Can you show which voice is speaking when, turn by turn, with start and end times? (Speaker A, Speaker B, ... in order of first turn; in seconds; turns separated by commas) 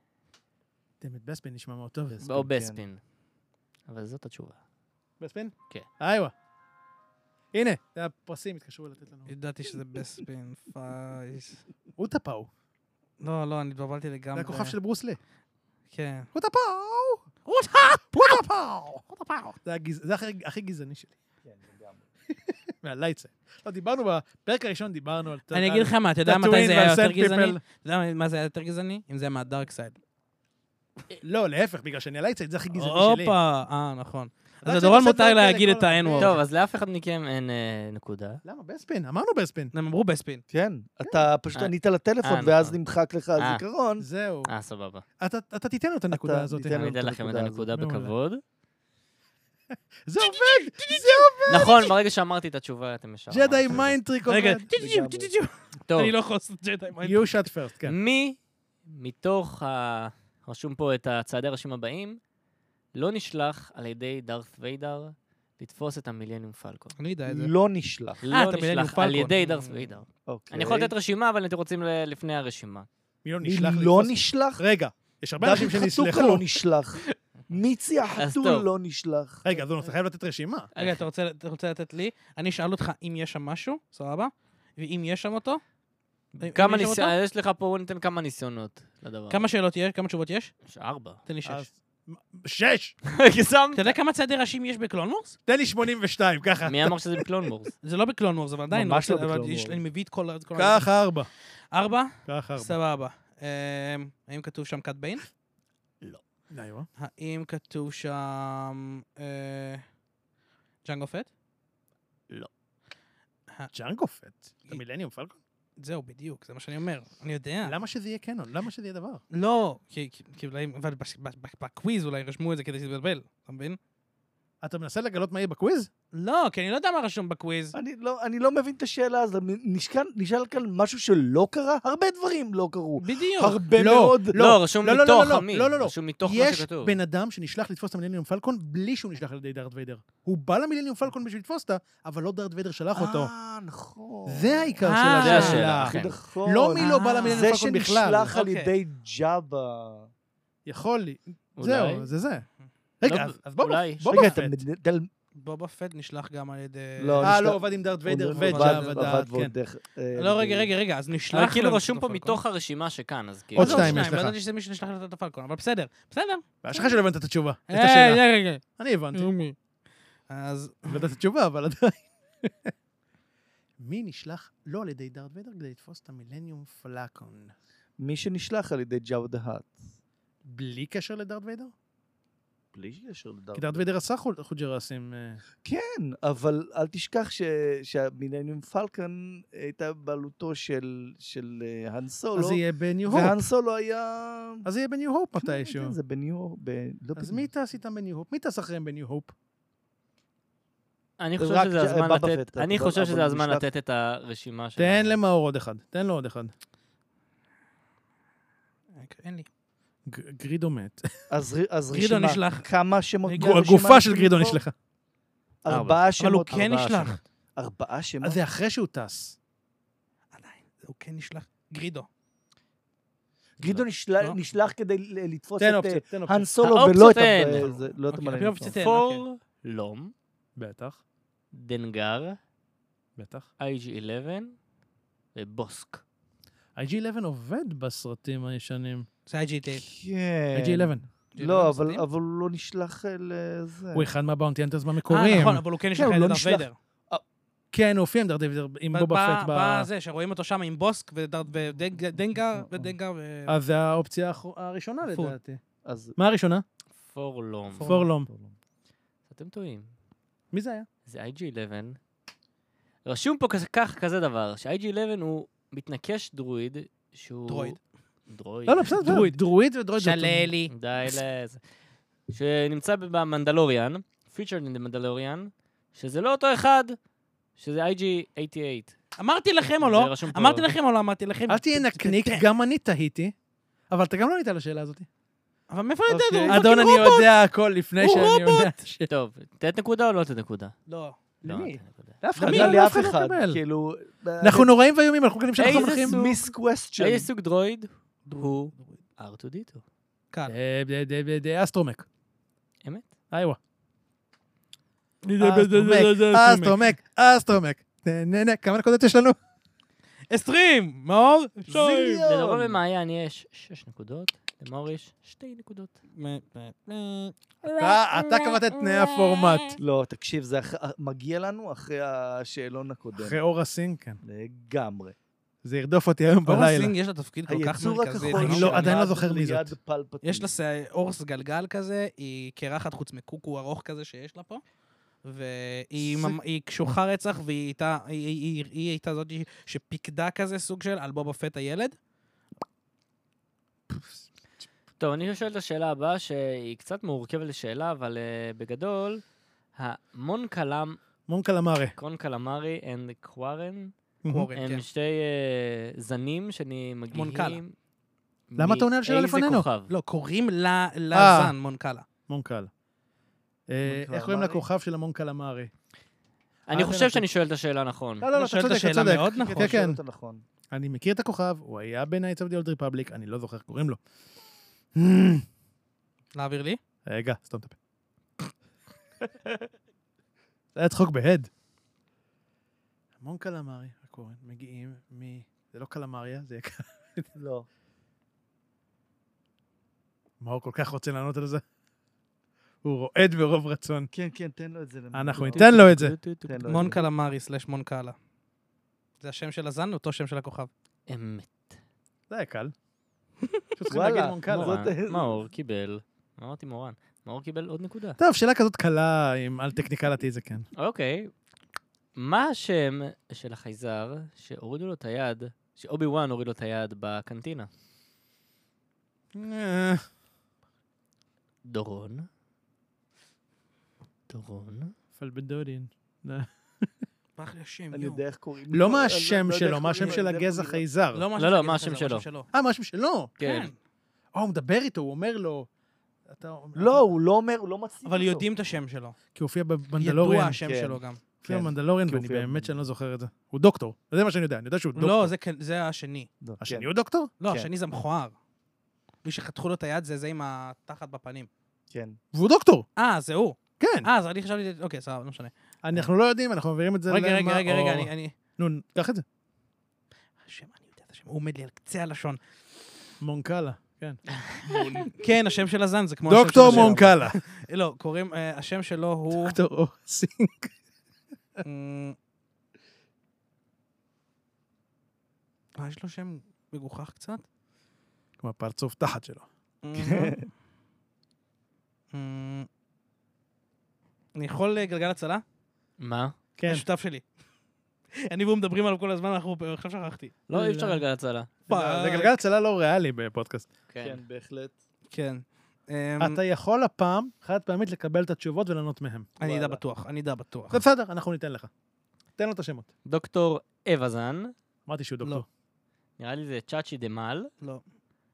Speaker A: 1.0-2.2, Speaker B: 2.2-2.8, Speaker C: 2.2-3.0, Speaker C: 3.9-4.6, Speaker A: 5.2-6.3, Speaker A: 7.5-9.3, Speaker D: 9.3-11.6, Speaker A: 12.0-12.5, Speaker D: 13.2-14.8, Speaker A: 14.3-15.2, Speaker D: 15.9-16.3, Speaker A: 16.3-17.3, Speaker D: 17.5-18.4, Speaker A: 18.1-21.1, Speaker B: 21.4-22.1, Speaker A: 22.8-27.6, Speaker D: 25.5-30.0, Speaker A: 31.2-33.4, Speaker D: 32.7-36.4, Speaker A: 34.6-36.4, Speaker C: 36.2-38.4, Speaker A: 38.5-39.7, Speaker D: 39.7-40.4, Speaker B: 40.5-44.1, Speaker C: 41.5-42.8, Speaker C: 43.4-43.6, Speaker A: 44.0-44.5, Speaker C: 44.5-45.0, Speaker A: 45.2-46.8, Speaker B: 46.1-47.7, Speaker C: 46.7-48.4, Speaker A: 47.7-48.1, Speaker A: 50.1-51.8, Speaker D: 50.2-51.9, Speaker C: 51.5-54.0, Speaker A: 53.3-54.7, Speaker D: 54.3-57.5, Speaker B: 54.8-55.3, Speaker C: 55.9-56.2, Speaker A: 57.0-58.0, Speaker C: 57.8-62.2, Speaker C: 63.0-67.0, Speaker D: 67.0-67.5, Speaker B: 67.3-68.2, Speaker C: 68.2-72.9, Speaker D: 68.3-70.0, Speaker B: 70.3-70.9, Speaker A: 73.2-76.5, Speaker B: 73.4-74.6, Speaker B: 75.4-79.7, Speaker C: 78.2-78.7, Speaker A: 79.4-80.7, Speaker C: 80.7-81.0, Speaker D: 80.8-85.6, Speaker C: 86.4-89.5, Speaker D: 86.4-87.2, Speaker D: 89.3-90.5, Speaker C: 90.7-91.2, Speaker D: 91.3-91.7, Speaker A: 91.5-93.0, Speaker C: 93.0-94.0, Speaker D: 93.7-95.4, Speaker A: 95.5-97.2, Speaker C: 96.6-97.8, Speaker D: 97.8-100.9, Speaker B: 98.7-99.8, Speaker A: 100.5-101.3, Speaker D: 101.7-105.2, Speaker A: 102.3-102.8, Speaker A: 106.5-106.9, Speaker D: 107.0-109.8, Speaker D: 110.8-111.3, Speaker A: 113.7-115.4, Speaker D: 115.8-117.8, Speaker A: 117.6-119.2, Speaker D: 119.3-123.8, Speaker A: 124.6-125.9, Speaker D: 126.1-127.8, Speaker B: 127.7-134.4, Speaker D: 133.0-133.6, Speaker A: 133.8-143.3, Speaker C: 134.3-137.0, Speaker B: 142.9-150.1, Speaker A: 144.3-148.3, Speaker D: 144.8-145.7, Speaker C: 145.2-146.2, Speaker D: 146.8-147.5, Speaker D: 148.3-148.7, Speaker A: 150.7-152.5, Speaker C: 151.6-152.1, Speaker A: 153.0-154.6, Speaker C: 153.0-154.2, Speaker B: 154.1-155.1, Speaker D: 155.4-157.4, Speaker B: 157.0-160.7, Speaker A: 157.2-159.6, Speaker D: 158.4-159.1, Speaker D: 160.2-162.4, Speaker C: 161.3-164.1, Speaker A: 163.6-164.4, Speaker D: 163.6-167.0, Speaker A: 166.6-169.3, Speaker D: 167.7-168.6, Speaker D: 169.1-169.6, Speaker D: 170.3-171.1, Speaker A: 170.9-172.7, Speaker A: 173.8-177.5, Speaker B: 178.0-179.9, Speaker A: 180.4-181.7, Speaker B: 182.7-183.9, Speaker A: 183.6-185.4, Speaker B: 185.6-194.7, Speaker A: 192.4-193.4, Speaker A: 194.7-196.0, Speaker B: 195.4-197.5, Speaker A: 197.2-199.3, Speaker C: 201.2-205.2, Speaker B: 201.4-203.7, Speaker A: 204.8-206.5, Speaker D: 209.0-209.5, Speaker A: 210.1-211.1, Speaker B: 211.3-214.6, Speaker D: 211.9-212.7, Speaker D: 213.3-213.6, Speaker A: 213.4-214.7, Speaker B: 215.7-218.4, Speaker C: 215.7-216.0, Speaker D: 216.2-217.2, Speaker A: 218.2-219.4, Speaker D: 220.3-222.1, Speaker B: 223.6-228.8, Speaker C: 223.6-223.9, Speaker A: 225.6-226.5, Speaker C: 226.6-227.7, Speaker D: 227.6-229.2, Speaker C: 228.7-230.1, Speaker A: 230.6-231.0, Speaker C: 231.5-232.4, Speaker A: 233.2-233.5, Speaker C: 233.6-234.6, Speaker C: 235.3-236.0, Speaker A: 236.8-239.1, Speaker D: 239.3-239.8, Speaker B: 239.7-244.1, Speaker A: 240.5-241.1, Speaker D: 241.3-242.0, Speaker A: 243.9-245.6, Speaker D: 245.1-246.8, Speaker B: 245.9-247.2, Speaker A: 247.7-249.9, Speaker D: 248.9-253.6, Speaker B: 252.5-252.9, Speaker A: 253.5-255.6, Speaker D: 255.1-255.4, Speaker B: 255.8-256.2, Speaker A: 256.2-256.6, Speaker C: 257.0-257.9, Speaker D: 257.8-258.1, Speaker A: 257.9-258.3, Speaker B: 257.9-258.6, Speaker C: 259.3-259.9, Speaker A: 260.5-260.9, Speaker C: 261.1-262.0, Speaker C: 263.1-267.8, Speaker D: 267.5-267.8, Speaker C: 268.3-269.1, Speaker A: 268.7-270.5, Speaker D: 269.0-269.4, Speaker D: 270.0-271.2, Speaker C: 270.7-271.6, Speaker C: 272.3-277.0, Speaker C: 277.6-278.9, Speaker D: 279.2-282.4, Speaker C: 279.8-280.7, Speaker A: 281.5-283.3, Speaker A: 283.9-285.1, Speaker D: 285.7-287.3, Speaker B: 286.1-286.7, Speaker A: 286.4-289.1, Speaker D: 288.0-288.7, Speaker C: 289.1-290.8, Speaker D: 290.9-291.2, Speaker C: 291.4-292.2, Speaker A: 291.4-293.6, Speaker B: 292.4-294.7, Speaker D: 292.4-292.8, Speaker A: 294.4-296.2, Speaker C: 295.6-299.8, Speaker B: 295.6-297.3, Speaker D: 298.3-299.0, Speaker A: 300.5-302.1, Speaker C: 302.8-303.1, Speaker A: 303.3-303.6, Speaker D: 305.2-306.8, Speaker A: 305.4-309.4, Speaker D: 310.3-312.2, Speaker B: 311.7-312.8, Speaker C: 312.2-316.0, Speaker D: 316.2-317.3, Speaker C: 317.7-319.5, Speaker A: 317.7-319.8, Speaker B: 319.8-323.4, Speaker A: 323.2-324.2, Speaker B: 324.2-325.1, Speaker A: 325.6-326.9, Speaker D: 326.5-329.0, Speaker B: 327.5-330.5, Speaker A: 328.2-329.7, Speaker D: 330.2-334.6, Speaker D: 335.2-342.0, Speaker A: 336.0-336.4, Speaker C: 345.0-349.2, Speaker C: 349.8-351.0, Speaker A: 351.3-351.9, Speaker C: 352.0-353.9, Speaker A: 354.2-354.5, Speaker D: 354.3-354.9, Speaker C: 354.5-357.8, Speaker D: 357.1-357.6, Speaker C: 358.5-359.9, Speaker A: 358.6-359.7, Speaker D: 359.9-362.1, Speaker A: 361.1-361.5, Speaker A: 362.3-362.7, Speaker A: 363.7-365.7, Speaker B: 363.9-364.7, Speaker C: 366.7-368.3, Speaker A: 366.7-367.3, Speaker A: 368.2-370.0, Speaker D: 368.4-369.8, Speaker B: 369.4-370.4, Speaker A: 370.7-374.0, Speaker A: 374.9-375.4, Speaker D: 376.3-376.8, Speaker A: 377.1-377.8, Speaker A: 380.8-381.5, Speaker A: 383.2-387.3, Speaker B: 387.4-387.7, Speaker A: 390.4-391.6, Speaker A: 392.8-394.1, Speaker B: 394.1-397.0, Speaker A: 395.1-396.2, Speaker C: 395.5-397.0, Speaker D: 396.7-398.2, Speaker D: 399.2-400.7, Speaker C: 401.1-401.8, Speaker A: 402.3-402.7, Speaker A: 403.8-404.9, Speaker B: 403.9-405.4, Speaker C: 404.5-408.2, Speaker A: 408.2-410.7, Speaker C: 410.8-411.3, Speaker C: 412.2-417.7, Speaker A: 419.3-420.1, Speaker C: 421.6-422.3, Speaker C: 424.3-424.9, Speaker A: 425.1-426.9, Speaker D: 427.4-428.2, Speaker B: 427.9-430.8, Speaker A: 428.7-431.2, Speaker D: 431.1-432.5, Speaker C: 431.4-432.3, Speaker A: 432.5-433.3, Speaker C: 433.4-433.7, Speaker D: 433.4-433.8, Speaker A: 434.3-435.7, Speaker A: 436.3-437.0, Speaker B: 436.8-438.5, Speaker D: 438.1-439.2, Speaker A: 439.4-440.6, Speaker D: 440.0-441.2, Speaker B: 440.6-442.8, Speaker A: 441.4-445.3, Speaker D: 444.9-446.3, Speaker B: 446.4-446.9, Speaker A: 446.6-447.3, Speaker D: 447.4-448.4, Speaker D: 449.2-451.5, Speaker B: 451.9-452.2, Speaker A: 452.3-452.9, Speaker D: 453.0-455.5, Speaker A: 453.8-454.1, Speaker A: 455.8-459.2, Speaker D: 457.1-458.4, Speaker D: 460.5-462.4, Speaker A: 463.2-464.2, Speaker C: 464.5-465.0, Speaker D: 464.7-469.6, Speaker A: 466.3-467.4, Speaker B: 466.6-467.1, Speaker A: 469.3-470.7, Speaker D: 471.6-472.2, Speaker D: 475.8-477.4, Speaker A: 478.4-479.5, Speaker D: 479.8-480.4, Speaker B: 480.0-480.4, Speaker D: 482.1-482.7, Speaker D: 484.4-485.4, Speaker C: 486.0-486.4, Speaker A: 486.6-486.9, Speaker D: 486.7-487.3, Speaker D: 488.2-490.4, Speaker C: 490.5-491.5, Speaker A: 490.5-490.9, Speaker A: 491.7-493.7, Speaker D: 491.7-492.4, Speaker C: 493.9-494.2, Speaker B: 494.0-494.7, Speaker D: 495.1-496.4, Speaker A: 496.2-499.3, Speaker D: 499.4-500.8, Speaker B: 499.4-499.8, Speaker A: 500.7-501.7, Speaker A: 502.4-502.9, Speaker C: 503.1-504.5, Speaker A: 504.9-505.5, Speaker C: 506.2-507.5